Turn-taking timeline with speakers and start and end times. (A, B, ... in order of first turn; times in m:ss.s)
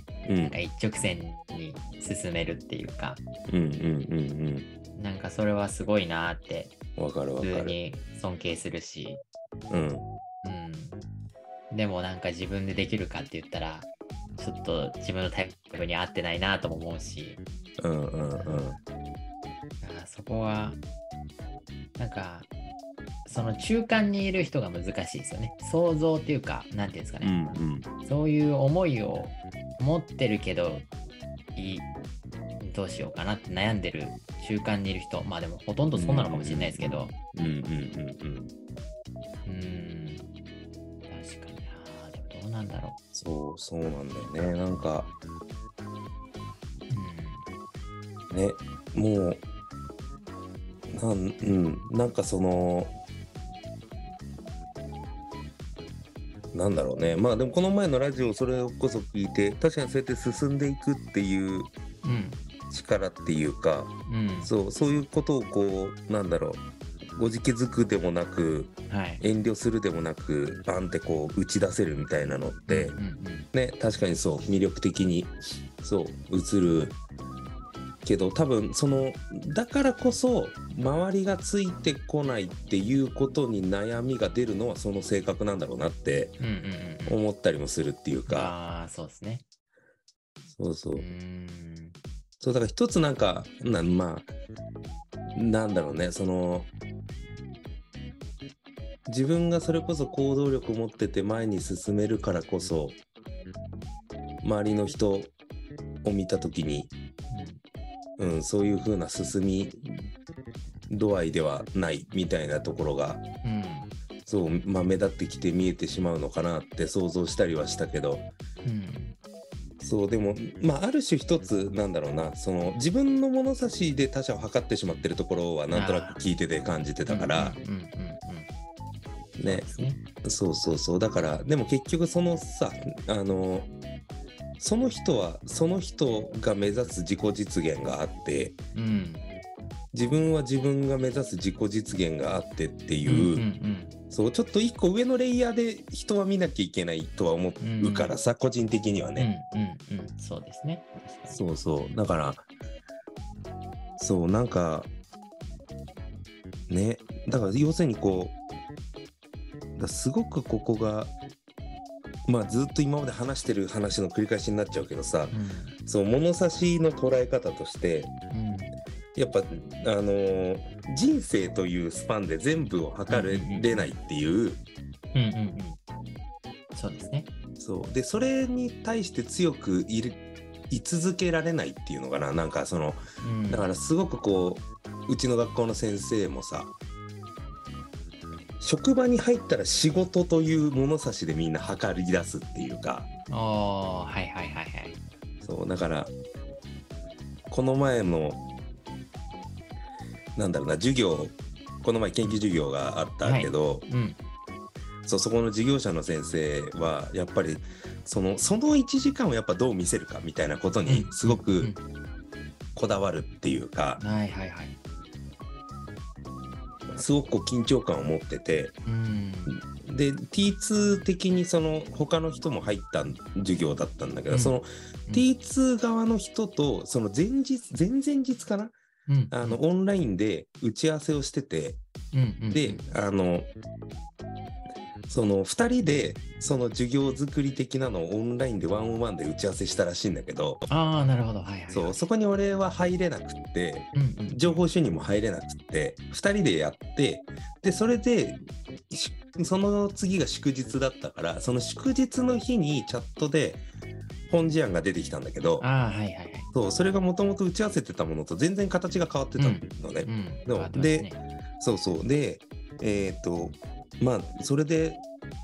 0:00.2-0:00.6 A
0:00.4-0:03.2 B
0:03.5-0:04.7 A
0:05.0-0:06.8 B
0:07.0-0:07.8 A
0:07.4-0:09.2 B
0:09.7-0:10.0 A
0:10.4-0:11.0 B
0:11.7-0:17.4 B
0:17.8-0:18.8 A
0:18.3-0:18.8 B
0:19.8-0:20.8 B
0:22.0-0:22.5 B
0:23.2-0:30.9 B
0:27.2-0:27.9 A
0:31.5-0:31.9 B
0:32.6-0:37.1 B
0:35.9-0:38.5 A
0:39.4-0:40.3 B
0:41.1-0:43.0 B
0:43.1-0:45.1 A
0:46.9-0:47.4 B
0:48.3-0:49.4 A
0:50.9-0:52.9 A
0:56.5-1:01.7 A
1:02.0-1:02.4 B
1:02.7-1:06.6 A
1:04.1-1:04.5 B
1:07.2-1:13.0 A
1:08.9-1:09.2 B
1:12.7-1:13.5 B
1:13.5-1:17.0 A
1:18.0-1:26.4 A
1:26.4-1:27.2 B
1:27.0-1:28.5 A
1:28.3-1:29.4 B
1:30.5-1:31.0 A
1:31.0-1:32.0 B
1:32.4-1:34.3 A
1:35.3-1:36.7 A
1:39.0-1:43.0 A
1:44.4-1:45.3 A
1:46.0-1:46.9 A
1:47.3-1:47.6 B
1:48.2-1:50.1 A
1:50.9-1:53.2 A
1:53.4-1:53.9 B
1:54.3-1:58.3 A
1:58.6-1:59.2 B
1:59.8-2:07.5 A
2:05.7-2:06.2 B
2:07.1-2:08.5 B
2:09.4-2:13.7 A
2:09.4-2:10.0 B
2:14.6-2:18.6 A
2:18.8-2:19.3 B
2:19.9-2:23.4 A
2:23.0-2:23.9 B
2:24.1-2:29.3 A
2:27.6-2:28.1 B
2:29.2-2:31.4 B
2:31.3-2:32.5 A
2:34.0-2:34.9 A
2:36.7-2:38.4 A
2:39.8-2:41.1 A
2:42.2-2:45.3 A
2:45.3-2:45.8 B
2:45.9-2:48.1 A
2:48.3-2:48.8 B
2:49.1-2:54.6 A
2:53.1-2:53.9 B
2:55.1-2:55.8 B
2:56.7-2:57.3 B
2:57.6-3:06.7 A
3:03.2-3:03.7 B
3:08.6-3:13.1 A
3:13.3-3:15.0 B
3:15.4-3:16.1 A
3:17.5-3:18.4 A
3:20.4-3:23.9 A
3:23.2-3:24.2 B
3:25.0-3:31.7 A
3:30.9-3:31.8 B
3:32.8-3:34.0 A
3:34.0-3:34.8 B
3:36.9-3:38.8 A
3:38.9-3:39.6 B
3:39.5-3:48.8 A
3:44.3-3:45.2 B
3:49.1-3:49.6 B
3:49.3-3:51.8 A
3:52.1-3:52.8 B
3:52.5-3:53.5 A
3:55.1-4:00.6 A
4:00.7-4:02.0 B
4:01.7-4:13.6 A
4:03.9-4:04.6 B
4:14.3-4:15.7 A
4:15.6-4:16.5 B
4:16.5-4:25.0 A
4:19.4-4:21.2 B